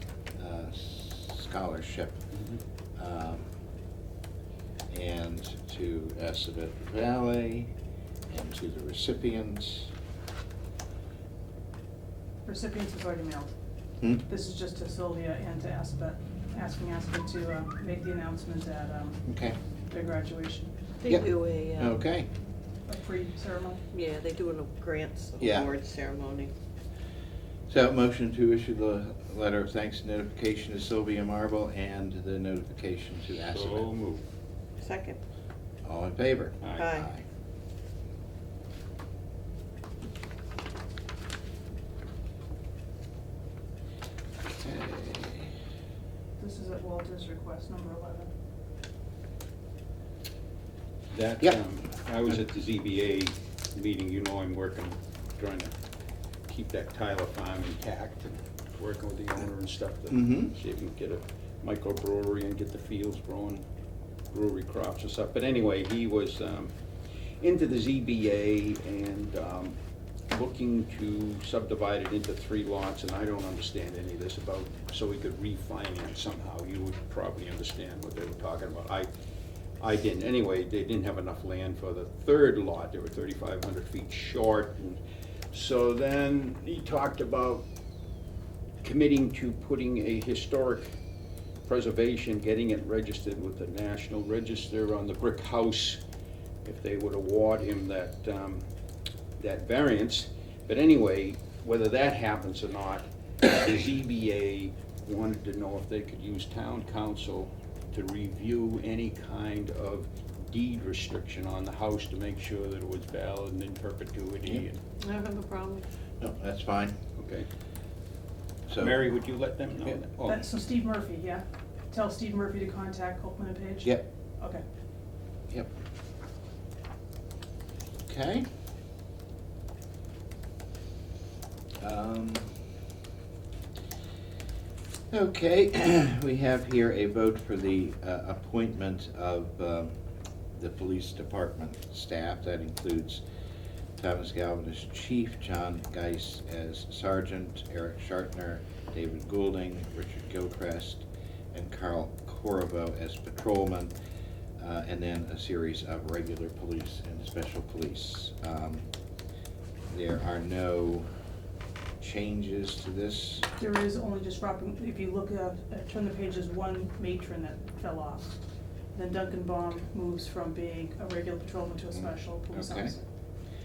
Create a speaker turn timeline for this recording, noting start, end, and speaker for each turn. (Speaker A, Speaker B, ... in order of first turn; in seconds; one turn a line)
Speaker A: 0.4-2.2
Speaker A: 3.0-3.5
Speaker A: 4.9-7.7
Speaker A: 8.3-9.9
Speaker B: 12.4-13.5
Speaker B: 14.2-19.2
Speaker A: 19.2-19.6
Speaker B: 19.9-20.7
Speaker C: 21.0-21.9
Speaker A: 21.1-22.3
Speaker B: 22.9-23.8
Speaker C: 23.9-26.5
Speaker A: 25.4-25.7
Speaker A: 27.7-33.9
Speaker D: 33.5-34.2
Speaker C: 34.8-35.2
Speaker A: 35.8-37.2
Speaker D: 36.6-36.9
Speaker C: 36.7-37.1
Speaker A: 44.4-45.5
Speaker B: 46.4-48.3
Speaker D: 51.1-55.7
Speaker D: 56.5-63.6
Speaker A: 60.1-60.5
Speaker D: 64.3-66.7
Speaker D: 67.4-69.7
Speaker D: 70.3-79.1
Speaker D: 79.8-85.0
Speaker D: 85.5-87.7
Speaker D: 88.8-90.9
Speaker D: 91.7-96.0
Speaker D: 96.6-98.7
Speaker D: 99.4-114.8
Speaker C: 115.0-115.8
Speaker A: 116.2-117.0
Speaker D: 117.2-117.5
Speaker A: 118.7-119.0
Speaker D: 118.8-120.4
Speaker B: 120.2-124.6
Speaker A: 128.1-128.5
Speaker A: 131.8-132.5
Speaker A: 135.1-139.9
Speaker A: 140.5-143.2
Speaker A: 144.0-153.9
Speaker A: 154.6-158.9
Speaker A: 159.9-161.1
Speaker A: 162.0-163.4
Speaker B: 163.6-168.4
Speaker B: 168.9-173.1
Speaker A: 171.9-172.9